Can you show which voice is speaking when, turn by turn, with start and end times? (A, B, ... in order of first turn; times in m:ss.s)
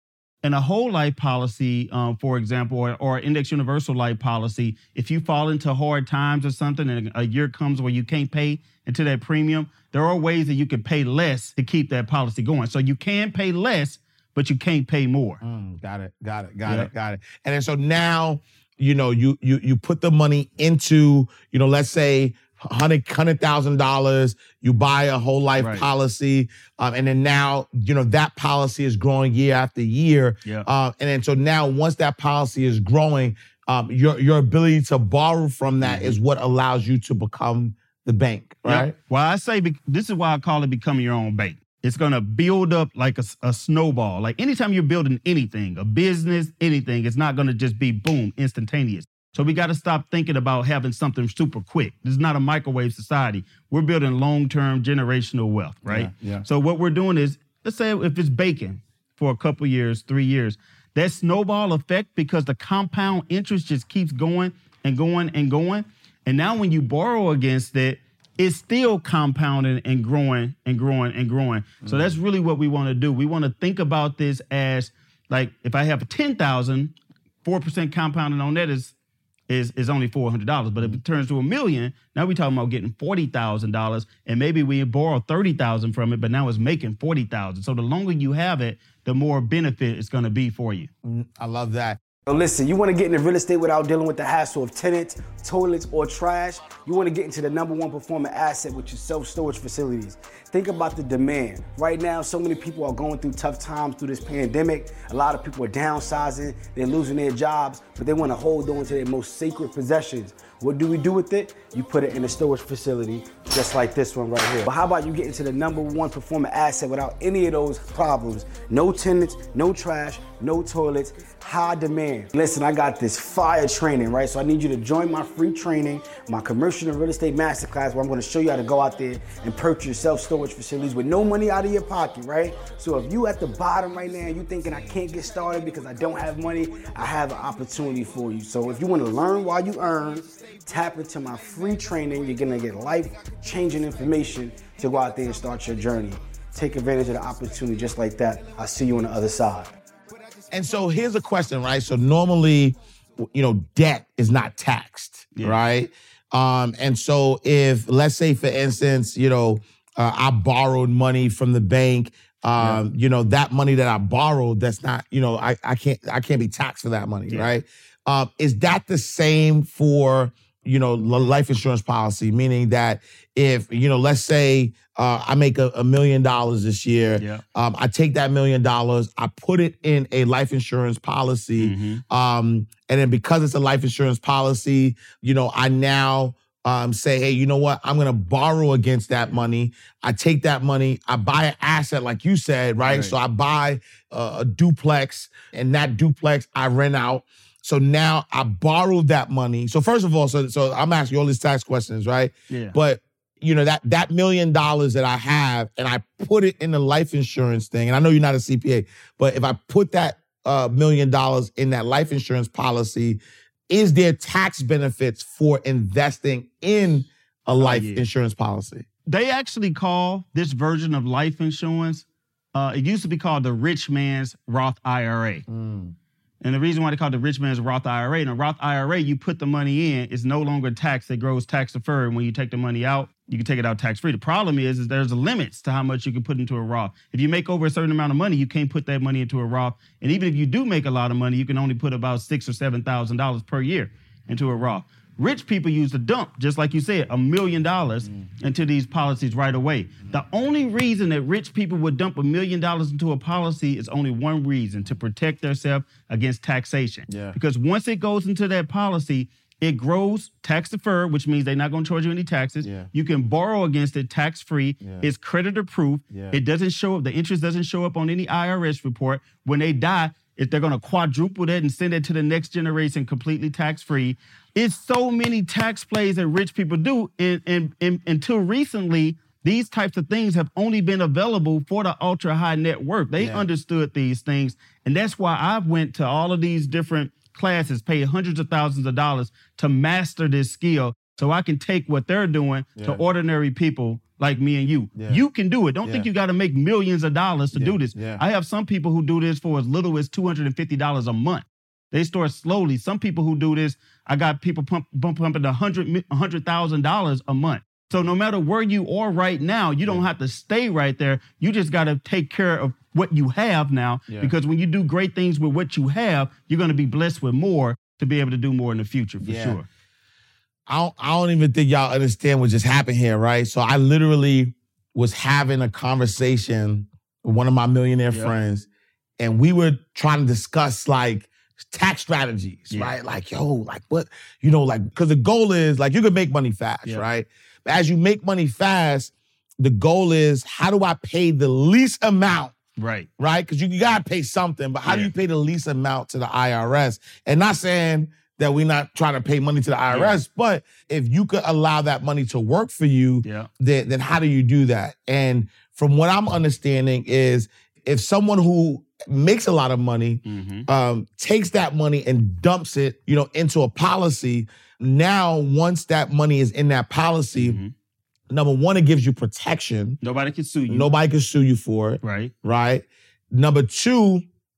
0:00.4-0:15.4 A
0:15.4-0:38.9 B
0:25.6-0:25.9 A
0:35.8-0:36.2 A
0:38.6-1:18.9 A
0:55.8-0:56.4 B
1:11.8-1:12.2 B
1:19.5-1:30.9 A
1:31.0-1:32.0 B
1:32.3-2:29.7 C
2:30.5-3:38.9 B
3:01.6-3:02.0 A
3:12.9-3:13.1 A
3:22.5-3:22.8 A
3:37.6-3:38.0 A
3:39.1-3:45.4 A
3:45.5-3:46.0 B
3:46.4-5:19.7 A
4:17.1-4:17.4 B
4:22.6-4:22.9 B
4:24.8-4:25.1 B
4:26.1-4:26.4 B
4:43.2-4:43.4 B
4:52.8-4:53.0 B
4:55.0-4:55.2 B
4:57.5-4:58.2 B
5:14.1-5:14.3 B
5:19.2-5:19.6 B
5:20.7-5:28.7 B
5:29.2-5:42.6 B
5:42.8-5:43.1 A
5:43.2-6:07.6 B
5:49.9-5:50.2 A
6:00.2-6:00.7 A
6:07.4-6:07.7 A
6:08.3-6:10.0 B
6:10.0-6:10.9 A
6:10.7-6:14.2 B
6:12.0-6:12.3 A